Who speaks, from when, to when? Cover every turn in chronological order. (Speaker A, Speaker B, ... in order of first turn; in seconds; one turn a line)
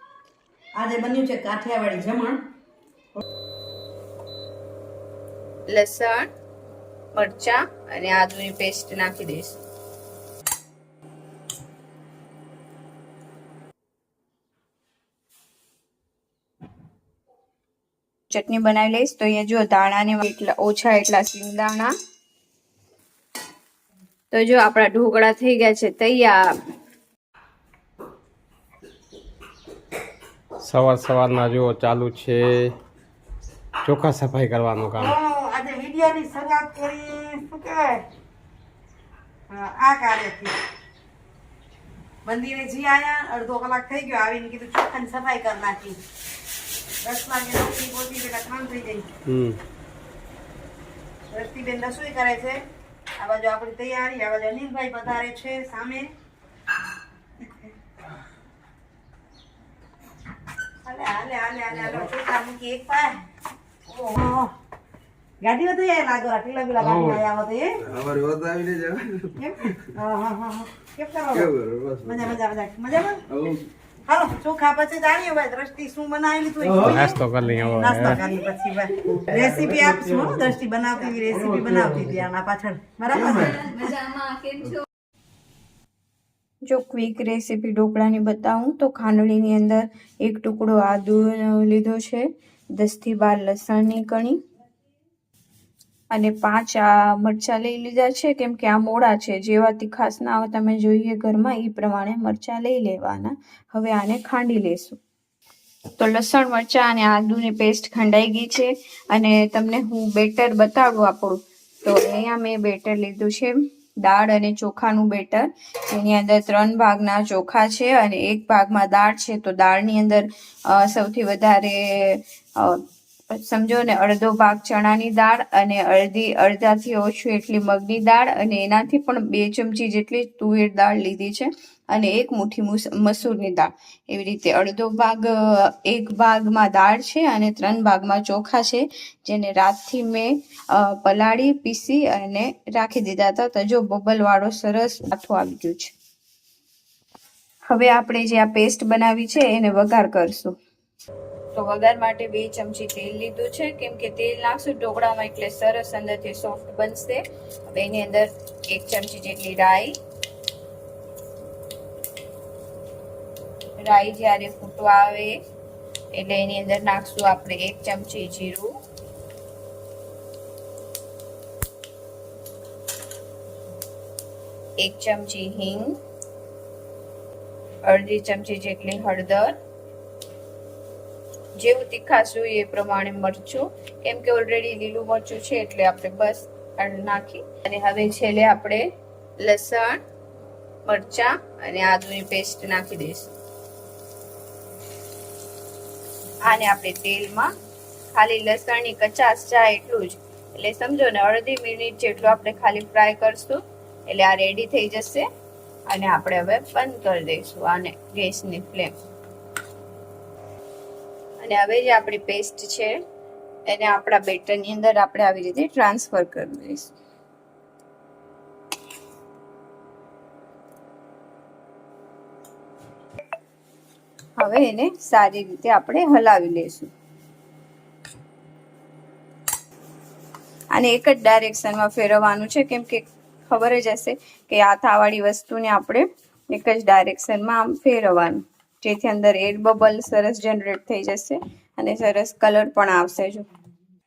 Speaker A: 0.8-2.4
Speaker B: 5.7-6.3
Speaker B: 7.1-9.6
Speaker B: 18.3-21.9
Speaker B: 24.3-26.4
Speaker C: 30.6-32.7
Speaker C: 33.8-35.1
Speaker A: 35.0-38.0
Speaker A: 39.5-40.5
Speaker A: 42.2-46.0
Speaker A: 47.0-49.1
Speaker C: 49.3-49.6
Speaker A: 51.3-52.6
Speaker A: 53.2-56.1
Speaker A: 57.4-57.7
Speaker A: 60.8-63.2
Speaker A: 63.9-64.5
Speaker A: 65.4-67.8
Speaker D: 67.9-69.3
Speaker A: 69.3-73.2
Speaker D: 71.4-72.0
Speaker A: 74.0-83.8
Speaker C: 76.8-78.2
Speaker B: 83.3-84.8
Speaker B: 86.7-94.4
Speaker B: 96.1-105.0
Speaker B: 106.0-145.9
Speaker B: 147.7-150.6
Speaker B: 151.6-160.0
Speaker B: 163.8-165.4
Speaker B: 166.1-168.8
Speaker B: 174.8-176.0
Speaker B: 177.8-179.6
Speaker B: 181.6-188.9
Speaker B: 189.4-190.0
Speaker B: 190.9-193.3
Speaker B: 196.4-197.5
Speaker B: 198.1-205.3
Speaker B: 205.9-208.9
Speaker B: 211.4-213.0
Speaker B: 213.7-216.9
Speaker B: 224.4-226.9
Speaker B: 230.8-243.5